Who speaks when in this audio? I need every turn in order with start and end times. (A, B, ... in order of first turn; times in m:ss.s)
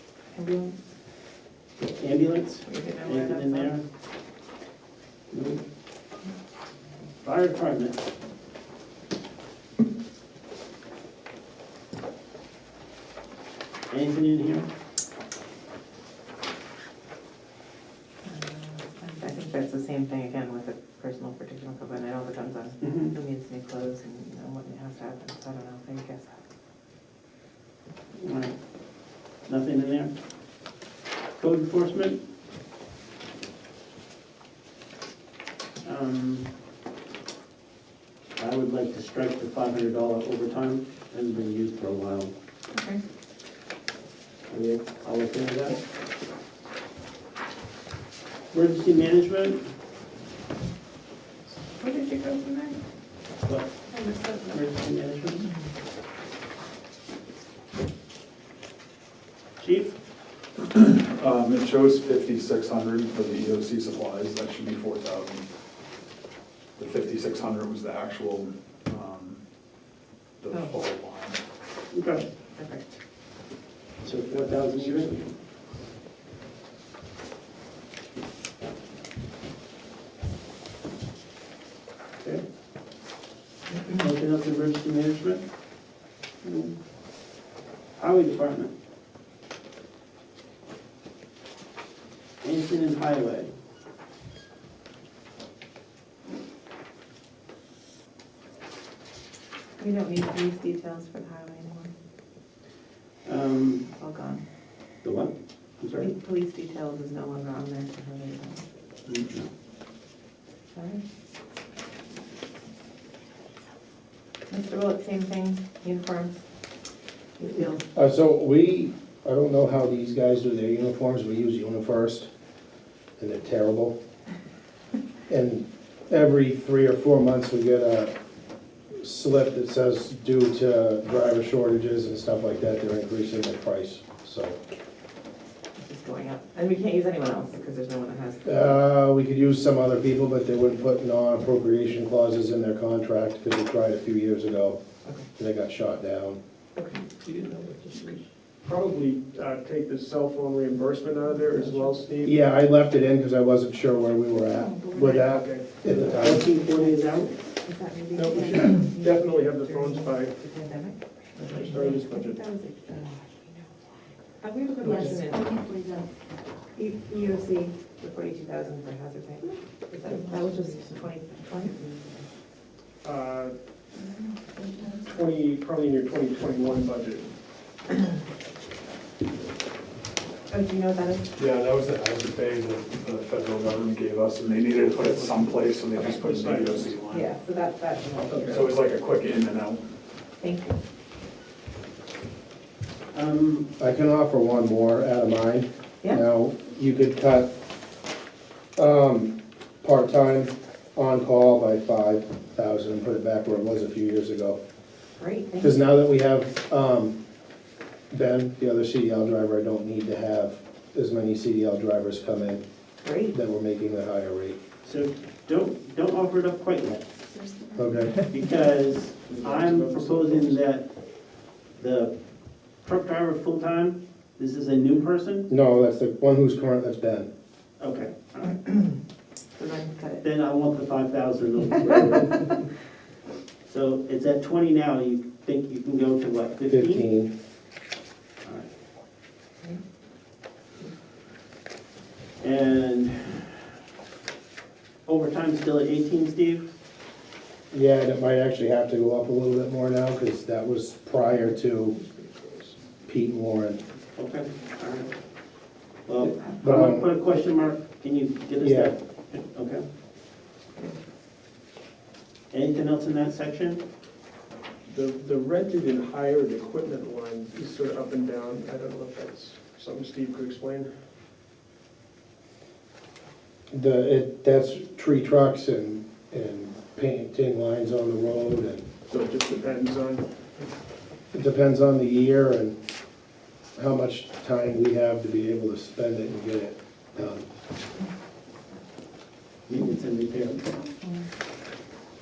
0:00.3-0:00.8 A
0:01.8-0:03.8 B
0:02.7-0:03.7 A
0:05.3-0:05.6 B
0:07.2-0:08.1 B
0:13.9-0:14.7 B
0:18.2-0:26.4 A
0:22.8-0:23.1 B
0:28.2-0:28.6 B
0:29.5-0:30.1 B
0:31.4-0:32.2 B
0:35.8-0:36.5 B
0:38.4-0:42.3 B
0:42.7-0:43.0 A
0:44.5-0:45.8 B
0:48.5-0:49.6 B
0:51.7-0:52.8 A
0:53.4-0:53.8 B
0:53.9-0:54.6 A
0:54.4-0:55.5 B
0:59.6-1:00.0 B
1:00.7-1:05.4 C
1:06.8-1:09.4 C
1:10.4-1:11.4 C
1:10.5-1:10.8 A
1:11.9-1:12.3 B
1:12.6-1:13.0 A
1:14.0-1:15.3 B
1:14.3-1:15.1 D
1:23.9-1:25.4 B
1:26.4-1:26.8 B
1:28.0-1:28.7 B
1:32.4-1:33.5 B
1:39.8-1:41.9 A
1:43.2-1:43.8 B
1:43.9-1:44.4 A
1:45.0-1:46.1 B
1:46.0-1:48.6 A
1:49.1-1:49.5 B
1:50.7-1:51.0 A
1:54.5-1:56.4 A
1:57.4-1:57.8 A
1:58.0-2:02.3 E
2:03.2-2:04.0 E
2:05.3-2:08.1 E
2:09.0-2:14.6 E
2:15.8-2:18.8 A
2:18.4-2:24.8 E
2:25.4-2:26.4 E
2:26.8-2:27.0 A
2:27.3-2:28.1 D
2:28.6-2:32.4 D
2:32.2-2:36.5 E
2:34.5-2:35.2 A
2:35.0-2:36.0 D
2:35.9-2:37.4 B
2:36.4-2:43.7 A
2:38.1-2:40.4 D
2:41.4-2:42.4 D
2:44.4-2:45.6 A
2:44.8-2:46.1 F
2:44.8-2:45.2 D
2:46.8-2:52.3 A
2:50.2-2:51.0 F
2:53.0-2:53.6 D
2:54.0-2:54.9 A
2:55.0-2:57.3 D
3:00.5-3:01.3 A
3:01.4-3:07.3 C
3:05.0-3:07.0 D
3:07.1-3:08.7 A
3:08.3-3:08.6 D
3:08.4-3:09.8 C
3:10.4-3:10.8 A
3:13.1-3:13.7 B
3:13.8-3:17.5 E
3:18.8-3:24.6 E
3:25.2-3:25.8 A
3:25.6-3:27.2 E
3:28.1-3:32.6 E
3:33.0-3:33.4 A
3:33.3-3:34.6 E
3:34.8-3:37.2 B
3:37.4-3:37.9 F
3:37.8-3:38.2 E
3:38.3-3:40.9 B
3:39.2-3:40.6 D
3:41.8-3:42.1 B
3:42.8-3:45.5 B
3:45.5-3:47.3 E
3:47.8-3:48.6 B
3:48.7-3:48.9 A
3:49.6-3:50.2 A
3:50.2-3:52.4 B
3:53.7-3:57.1 B
3:56.7-3:57.3 E
3:58.4-3:58.7 B
4:02.4-4:03.5 B
4:05.1-4:06.7 B
4:07.7-4:12.0 E
4:12.0-4:12.8 D
4:13.1-4:13.8 E
4:14.2-4:15.2 B
4:16.1-4:19.9 B
4:16.6-4:17.1 E
4:18.6-4:18.9 E
4:22.5-4:23.8 B
4:24.9-4:30.9 D
4:33.7-4:38.9 E
4:39.1-4:40.2 D
4:41.3-4:42.8 E
4:43.8-4:47.4 E
4:49.7-4:50.7 B
4:51.0-4:51.3 A